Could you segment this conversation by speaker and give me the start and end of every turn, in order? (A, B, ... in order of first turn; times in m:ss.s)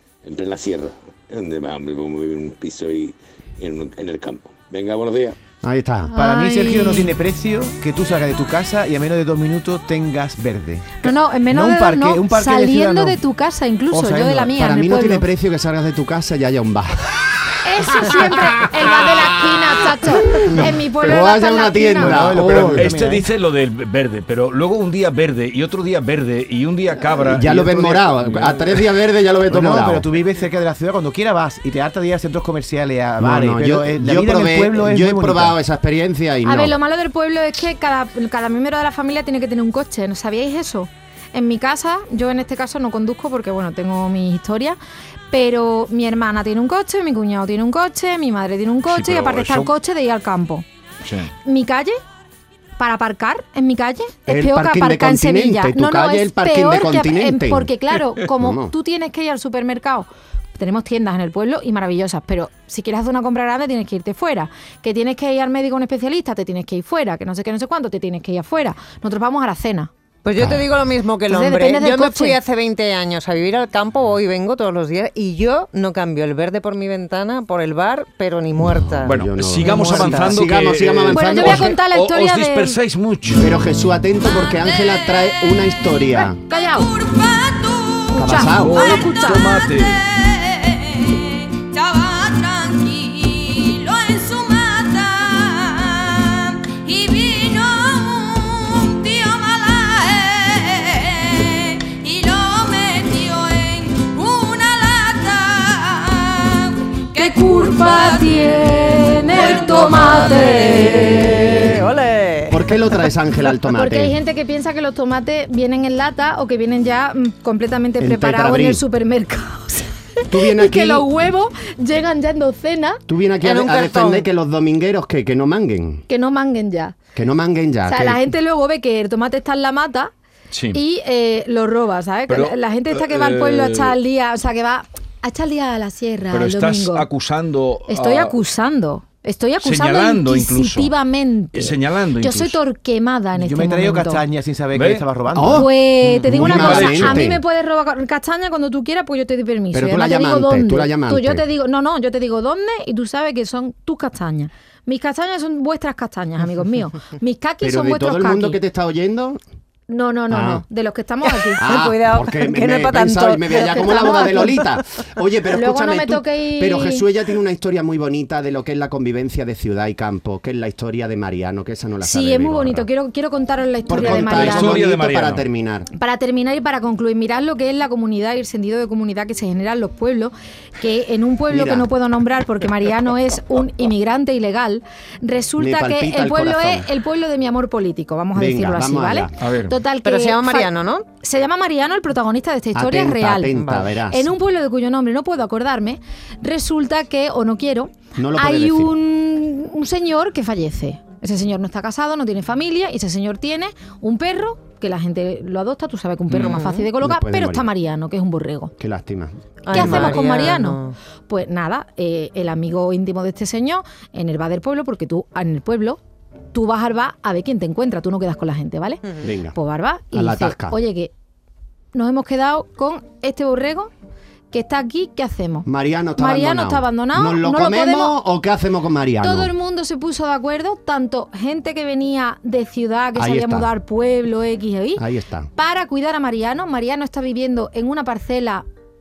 0:00.2-0:05.4 A
0:05.6-0:06.1 B
0:06.1-0:13.2 C
0:06.1-0:07.2 D
0:11.0-0:15.2 D
0:13.9-0:14.6 C
0:14.6-0:17.4 B
0:17.6-0:22.2 D
0:17.9-0:22.9 B
0:22.0-0:23.2 C
0:22.4-0:28.8 E
0:27.2-0:30.1 B
0:29.5-0:35.6 C
0:33.2-0:36.8 B
0:36.4-0:44.8 D
0:45.3-0:50.6 D
0:48.9-0:49.7 E
0:51.0-0:51.3 E
0:51.4-0:52.0 D
0:52.8-1:09.9 D
0:54.3-0:57.7 B
0:58.2-0:58.7 B
1:10.2-1:20.3 F
1:10.4-1:10.7 B
1:11.3-1:12.4 D
1:18.6-1:21.8 B
1:19.0-1:23.5 E
1:21.1-1:22.8 D
1:23.4-1:26.4 B
1:26.3-1:29.6 D
1:28.1-1:29.0 B
1:28.4-1:30.1 E
1:31.6-1:40.6 D
1:41.9-1:46.3 D
1:47.0-1:51.7 D
1:50.4-1:52.8 F
1:51.2-1:51.6 B
1:52.5-1:54.2 B
1:53.7-2:03.0 D
1:58.0-1:58.8 B
2:00.3-2:01.1 B
2:03.1-2:06.0 B
2:03.4-2:04.2 F
2:06.1-2:07.0 D
2:07.2-2:08.2 B
2:07.9-2:10.1 D
2:10.5-2:10.8 E
2:10.7-2:17.1 D
2:12.3-2:14.0 E
2:16.3-2:18.3 E
2:17.9-2:24.2 D
2:19.6-2:20.9 E
2:21.6-2:22.6 E
2:23.4-2:25.7 C
2:24.7-2:25.0 E
2:25.3-2:27.4 B
2:25.5-2:38.6 D
2:26.3-2:27.3 E
2:29.7-2:31.4 B
2:37.6-2:39.4 B
2:39.9-2:41.7 D
2:40.3-2:40.6 B
2:41.2-2:44.6 F
2:41.6-2:52.9 B
2:43.7-2:44.6 D
2:45.5-2:47.1 D
2:52.0-2:54.8 D
2:53.9-2:55.9 B
2:53.9-2:55.4 E
2:55.9-3:13.6 D
3:01.5-3:01.9 B
3:05.6-3:06.9 B
3:08.4-3:09.4 B
3:09.4-3:09.7 E
3:10.0-3:11.1 F
3:12.8-3:14.3 B
3:13.5-3:13.8 F
3:14.1-3:28.7 D
3:18.2-3:19.0 B
3:26.4-3:26.9 F
3:27.0-3:27.7 B
3:28.8-3:30.2 B
3:29.7-3:31.0 F
3:29.7-3:36.0 D
3:36.5-3:39.0 D
3:39.2-3:39.6 B
3:39.5-3:41.1 D
3:40.1-3:40.8 B
3:41.9-3:43.9 D
3:44.5-3:48.2 D
3:45.7-3:49.5 B
3:49.2-3:58.6 D
3:53.2-3:53.7 B
3:55.0-3:55.5 B